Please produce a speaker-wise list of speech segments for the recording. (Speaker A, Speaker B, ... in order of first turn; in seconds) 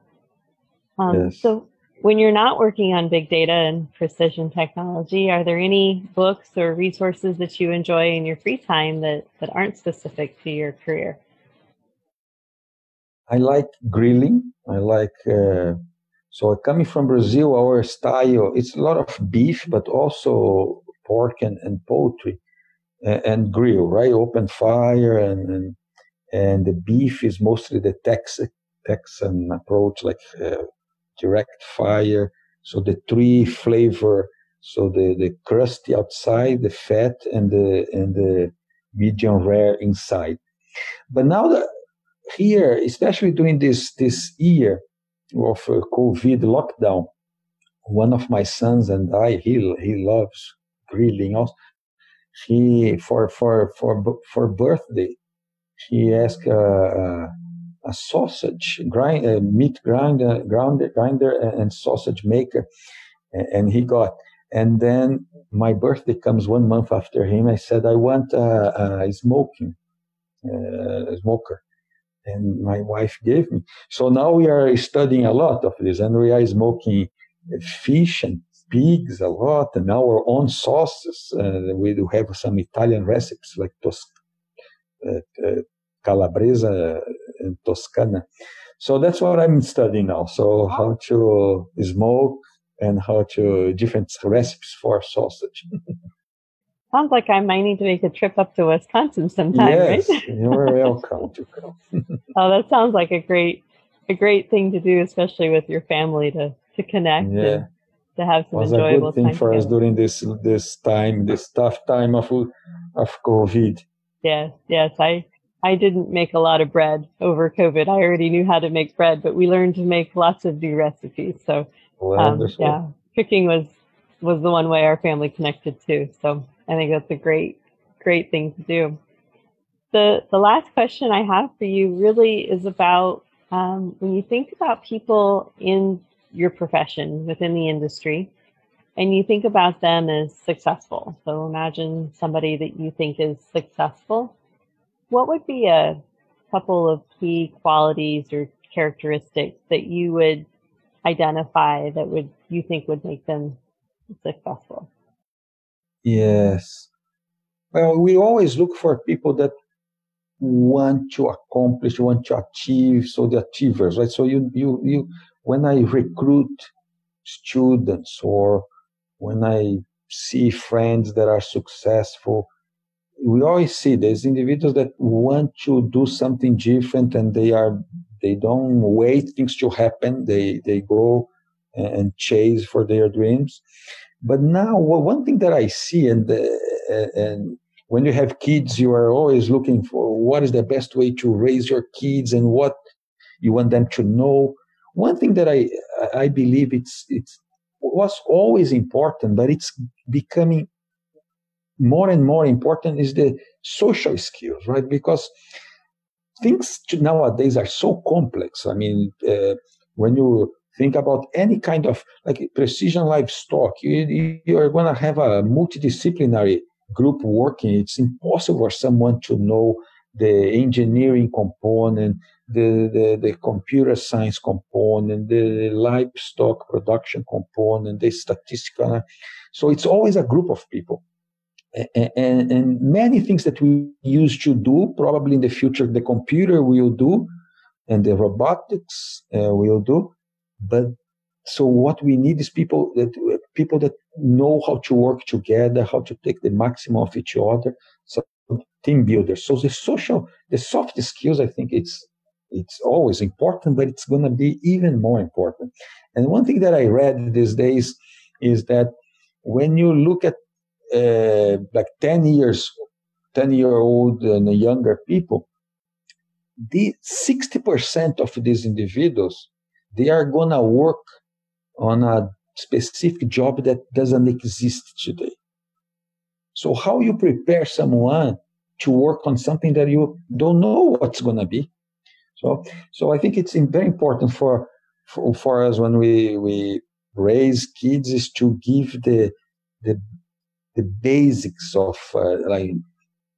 Speaker A: 1.0-11.2, 96.9-100.9, 102.3-107.6, 108.2-109.8, 114.2-129.0, 129.9-138.3, 139.0-144.3, 145.1-146.0, 146.5-150.5, 151.1-153.6, 154.2-154.9
Speaker B: 1.1-1.5, 13.3-15.8, 16.3-22.4, 23.0-25.8, 26.3-40.4, 41.1-41.7, 42.3-44.8, 45.3-47.1, 47.9-51.5, 52.3-55.2, 55.8-57.3, 57.8-62.6, 63.3-69.8, 70.4-71.6, 72.3-84.1, 85.0-88.2, 88.8-95.7, 99.5-102.1, 107.2-107.7, 108.5-113.8, 122.0-122.8, 156.0-156.9, 157.7-159.5, 160.4-166.7, 167.2-168.7, 169.2-172.5, 173.2-183.6, 184.2-192.8, 193.4-200.7, 201.8-205.3, 206.4-231.0, 231.7-237.3, 237.9-260.4, 260.9-262.7, 263.3-265.5, 266.6-271.1, 271.8-275.4, 276.5-281.7, 282.4-290.0, 290.8-292.8